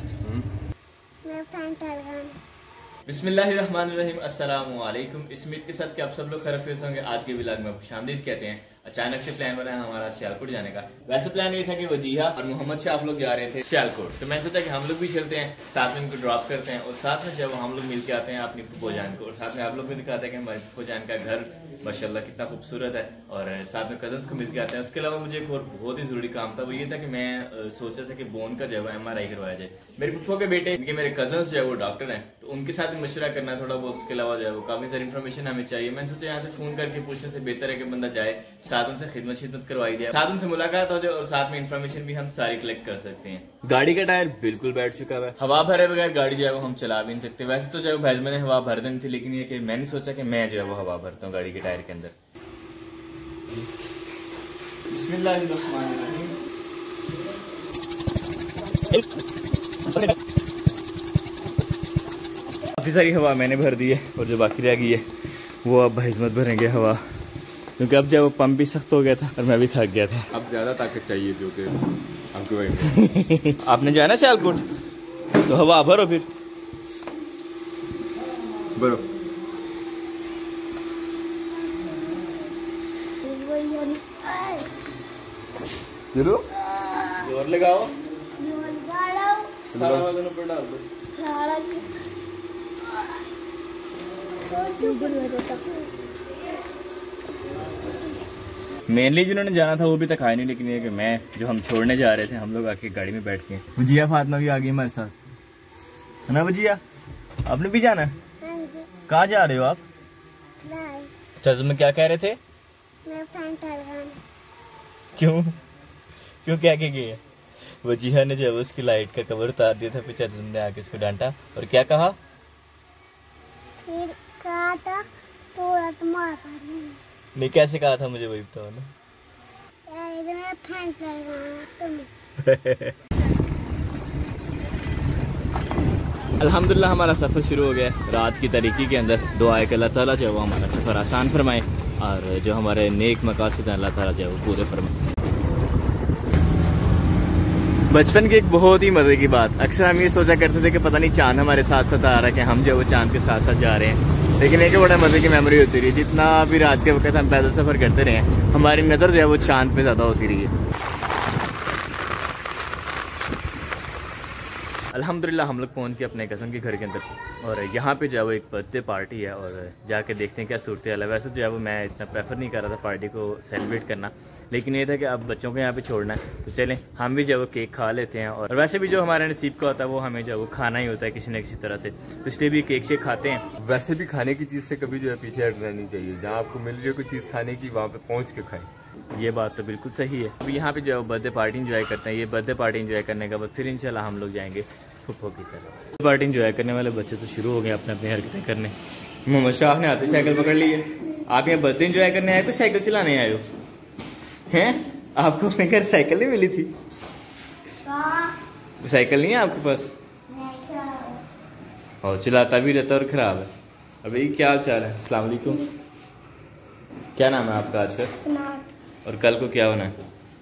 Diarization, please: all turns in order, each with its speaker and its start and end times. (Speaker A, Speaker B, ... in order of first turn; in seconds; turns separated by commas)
Speaker A: 1.2-2.4, Speaker B: 3.0-52.1, Speaker B: 54.9-56.4, Speaker B: 59.9-60.2, Speaker B: 62.7-65.0, Speaker B: 65.6-67.0, Speaker B: 67.8-70.3, Speaker C: 70.3-73.0, Speaker B: 72.9-74.6, Speaker B: 75.4-76.3, Speaker C: 78.8-79.1, Speaker A: 83.2-84.7, Speaker C: 86.1-86.6, Speaker B: 87.2-88.0, Speaker A: 88.4-89.5, Speaker B: 89.7-90.8, Speaker C: 89.7-90.1, Speaker A: 91.1-91.9, Speaker A: 94.5-95.9, Speaker B: 98.9-105.1, Speaker B: 106.3-106.8, Speaker B: 107.5-108.1, Speaker A: 108.4-108.9, Speaker B: 109.1-109.8, Speaker A: 110.6-111.1, Speaker B: 111.4-112.4, Speaker A: 113.0-114.2, Speaker B: 115.2-115.5, Speaker B: 116.4-117.2, Speaker B: 117.8-122.2, Speaker A: 123.8-127.0, Speaker B: 127.3-128.9, Speaker A: 129.9-132.1, Speaker B: 132.4-132.9, Speaker B: 136.4-144.9, Speaker B: 147.9-160.5, Speaker B: 164.9-183.4, Speaker C: 183.6-188.7, Speaker B: 189.1-198.7, Speaker B: 199.2-203.4, Speaker B: 204.5-206.7, Speaker A: 207.8-208.3, Speaker B: 208.8-209.9, Speaker A: 210.3-211.2, Speaker B: 212.0-213.5, Speaker B: 214.0-215.7, Speaker B: 217.2-218.1, Speaker A: 218.2-218.7, Speaker B: 219.0-219.9